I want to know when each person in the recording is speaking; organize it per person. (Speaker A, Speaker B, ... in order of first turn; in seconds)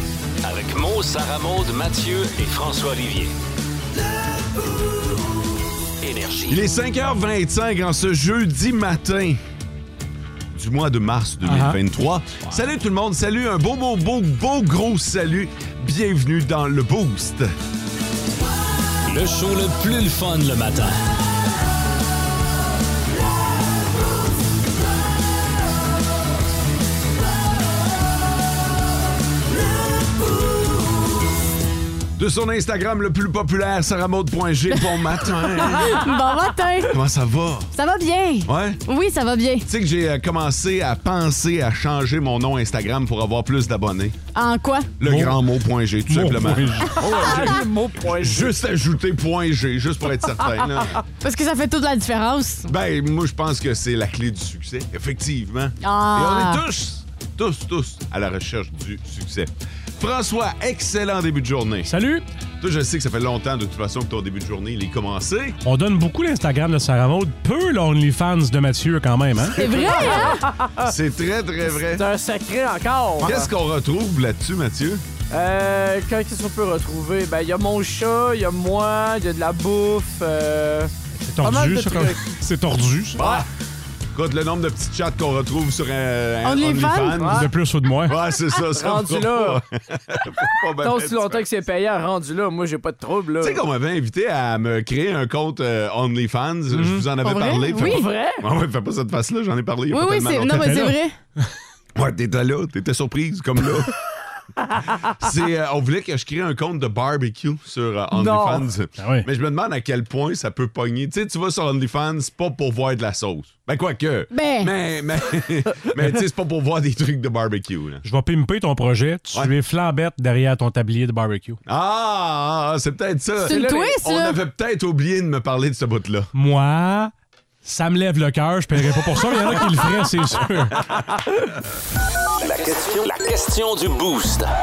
Speaker A: 0.4-3.3, 6.0-6.5, 19.1-20.9, 132.6-134.1
Speaker B: 6.5-9.4, 10.5-17.5, 32.2-36.0, 36.9-37.7, 38.5-38.8, 39.7-44.2, 45.0-47.0, 48.1-51.0, 52.7-61.9, 62.6-65.6, 69.6-70.1, 70.8-72.0, 73.2-75.0, 83.2-83.5, 84.1-87.5, 88.1-91.5, 93.4-100.8, 102.0-104.0, 105.2-118.0, 121.7-126.3
Speaker C: 11.4-11.8, 45.0-45.4, 46.1-47.6, 61.9-62.2, 65.7-69.6, 81.2-83.2, 87.3-88.2, 96.7-97.0, 100.6-101.5, 109.0-109.3, 118.0-121.6, 126.3-127.1, 127.6-130.8
Speaker D: 35.6-37.0, 37.7-39.7, 44.4-44.9, 51.2-52.7, 55.8-56.6, 69.5-70.4, 86.4-87.3, 97.2-98.1, 99.9-101.2, 114.3-114.7, 123.5-124.4
Speaker E: 47.0-48.6, 69.8-70.9, 71.8-73.5, 75.3-82.3, 87.2-87.5, 88.7-89.6, 90.8-93.6, 97.8-98.5, 108.1-108.7, 123.5-124.0